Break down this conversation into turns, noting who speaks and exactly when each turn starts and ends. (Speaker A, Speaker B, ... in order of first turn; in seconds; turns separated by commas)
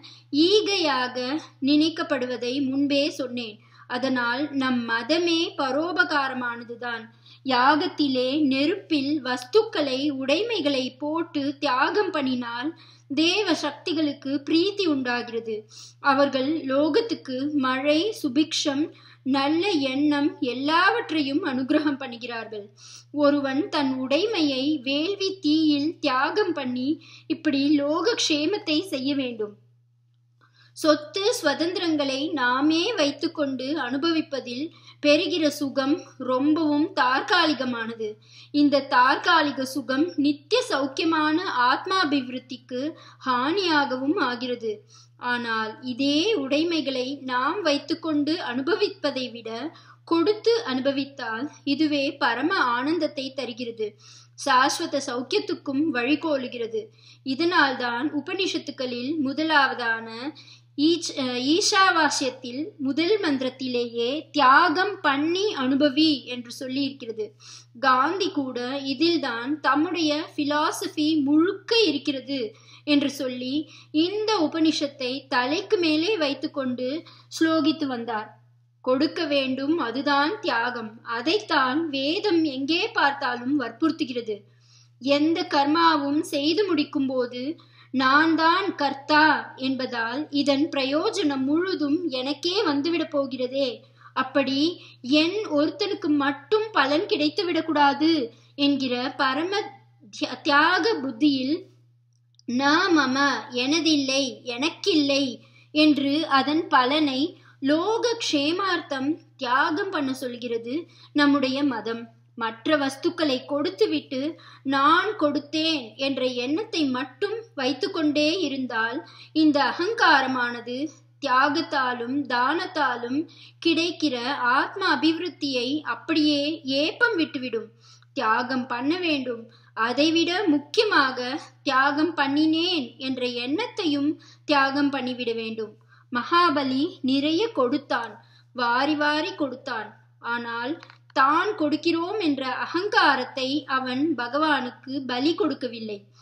Speaker A: 0.4-15.6, Speaker A: 16.1-22.7, Speaker A: 23.2-29.6, Speaker A: 30.8-44.7, Speaker A: 45.3-49.6, Speaker A: 50.1-53.9, Speaker A: 54.5-60.2, Speaker A: 60.8-67.3, Speaker A: 67.8-78.3, Speaker A: 78.9-84.4, Speaker A: 85.1-87.4, Speaker A: 88.0-93.7, Speaker A: 94.2-94.7, Speaker A: 95.2-99.6, Speaker A: 100.2-101.6, Speaker A: 102.6-127.7, Speaker A: 128.2-146.0